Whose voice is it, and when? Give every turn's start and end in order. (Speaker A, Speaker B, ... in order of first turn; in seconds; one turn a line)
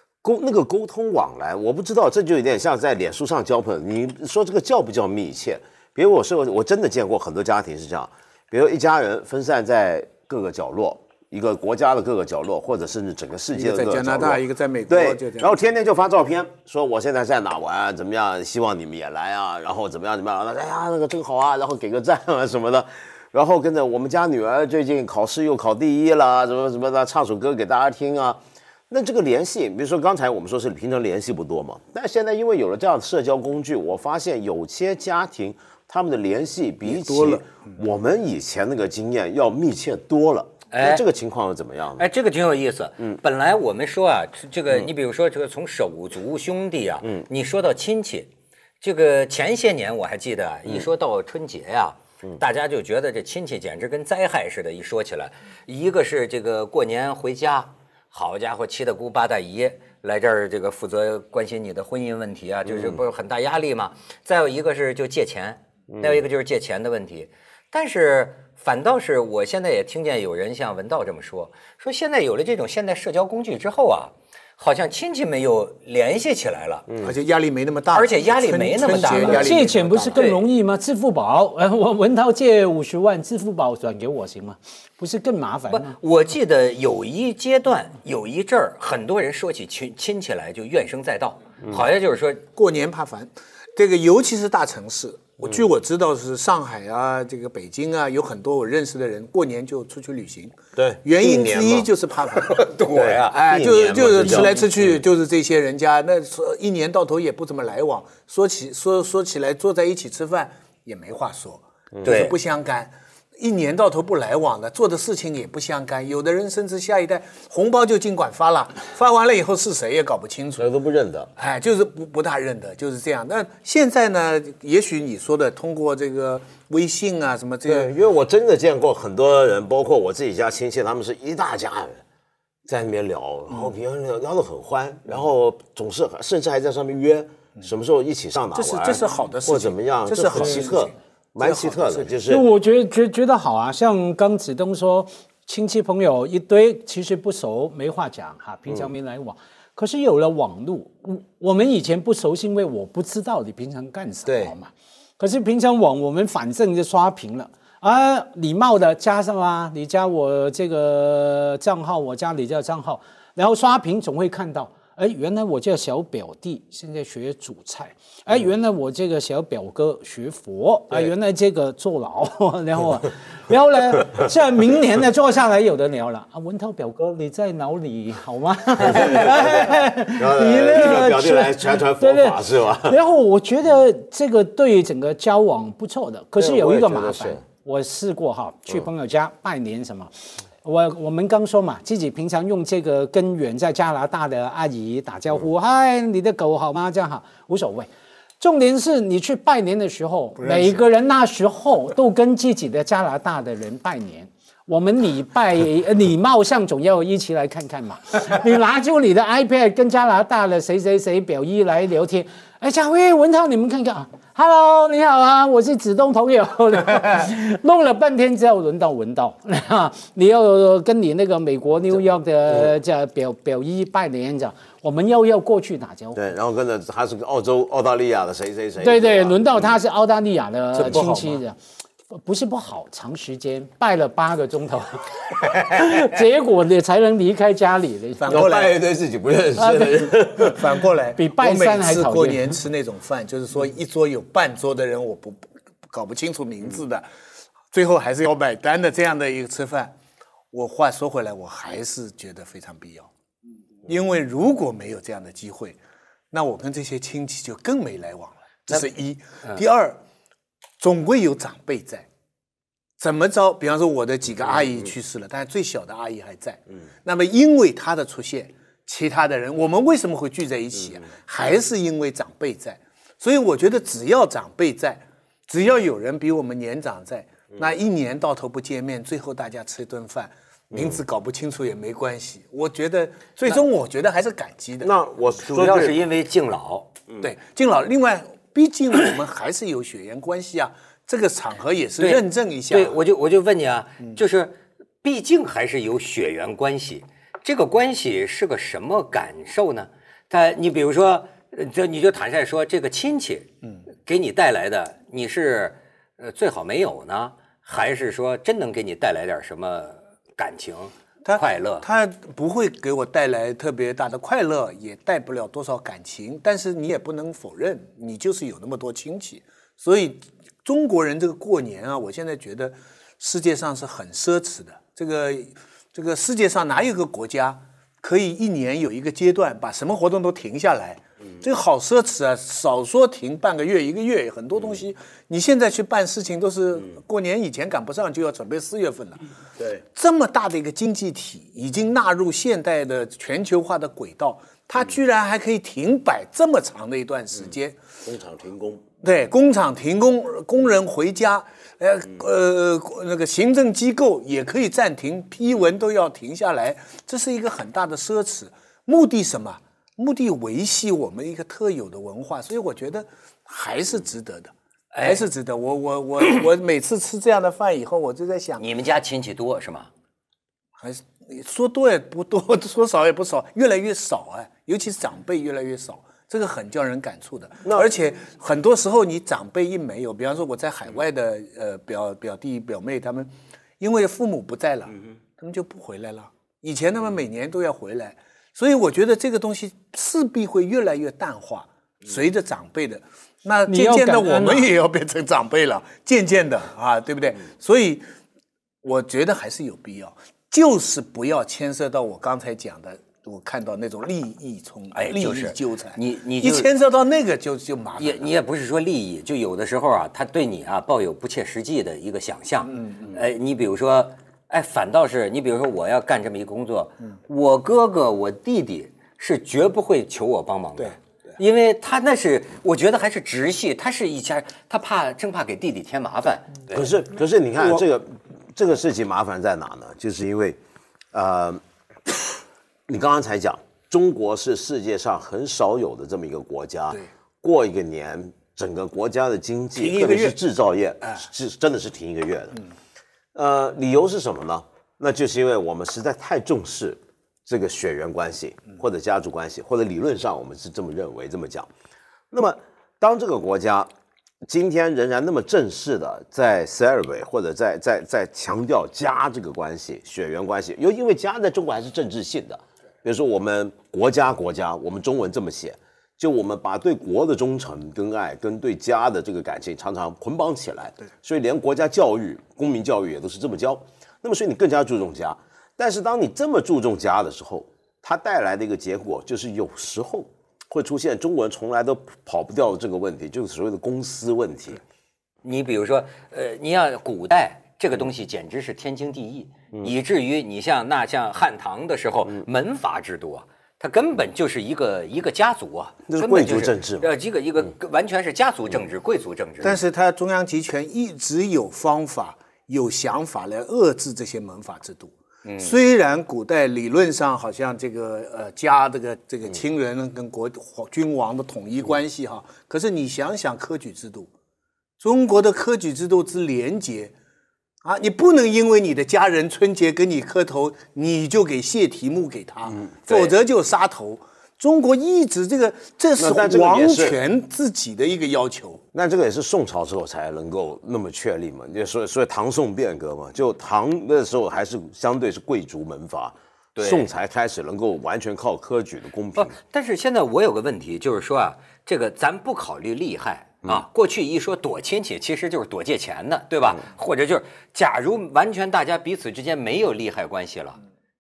Speaker A: 0.2-42.1
Speaker B: 13.6-15.6
Speaker B: 36.9-37.4
Speaker C: 40.7-41.0
Speaker C: 42.0-48.3
Speaker C: 48.8-76.9
Speaker A: 62.7-63.0
Speaker A: 65.9-66.2
Speaker A: 76.9-77.1
Speaker B: 77.0-80.3
Speaker C: 77.9-79.6
Speaker D: 79.1-86.0
Speaker C: 80.2-80.5
Speaker C: 85.7-92.5
Speaker B: 92.6-102.7
Speaker A: 100.8-101.9
Speaker C: 102.3-104.5
Speaker A: 102.9-105.0
Speaker B: 103.3-120.7
Speaker C: 112.0-112.3
Speaker A: 120.6-121.3
Speaker B: 121.4-127.9
Speaker A: 127.7-132.0
Speaker A: 132.7-142.5
Speaker B: 138.5-142.1
Speaker D: 142.3-197.9
Speaker A: 154.3-154.5
Speaker A: 178.8-183.0
Speaker A: 186.4-187.4
Speaker D: 198.4-226.2
Speaker B: 200.4-200.8
Speaker A: 221.9-222.8
Speaker A: 226.2-229.8
Speaker D: 228.8-231.6
Speaker A: 230.8-231.1
Speaker B: 230.8-231.3
Speaker D: 232.1-238.5
Speaker B: 238.2-238.8
Speaker A: 238.3-240.7
Speaker D: 239.6-240.1
Speaker B: 240.4-247.1
Speaker D: 241.2-242.6
Speaker B: 247.7-249.9
Speaker B: 250.5-253.1
Speaker B: 253.8-255.8
Speaker B: 256.3-260.0
Speaker B: 260.8-262.1
Speaker B: 263.0-284.9
Speaker A: 284.8-286.0
Speaker C: 285.5-286.9
Speaker B: 287.2-293.0
Speaker C: 292.0-303.5
Speaker C: 304.0-311.9
Speaker B: 311.2-339.2
Speaker A: 339.6-339.8
Speaker B: 339.9-347.8
Speaker A: 348.0-348.8
Speaker B: 349.0-368.6
Speaker C: 364.9-365.2
Speaker C: 368.6-369.9
Speaker B: 370.8-398.1
Speaker D: 393.7-394.7
Speaker B: 398.8-408.3
Speaker C: 404.9-406.7
Speaker C: 408.0-426.9
Speaker B: 412.7-413.2
Speaker A: 426.7-430.6
Speaker A: 431.1-442.6
Speaker B: 439.8-440.4
Speaker A: 443.3-451.7
Speaker A: 452.3-453.9
Speaker A: 454.4-484.8
Speaker C: 485.4-499.8
Speaker A: 496.1-497.1
Speaker B: 499.6-514.3
Speaker C: 505.4-505.7
Speaker B: 515.0-517.1
Speaker B: 517.8-528.8
Speaker A: 522.7-523.3
Speaker A: 526.2-527.2
Speaker A: 528.9-539.5
Speaker C: 536.8-537.1
Speaker C: 539.4-550.8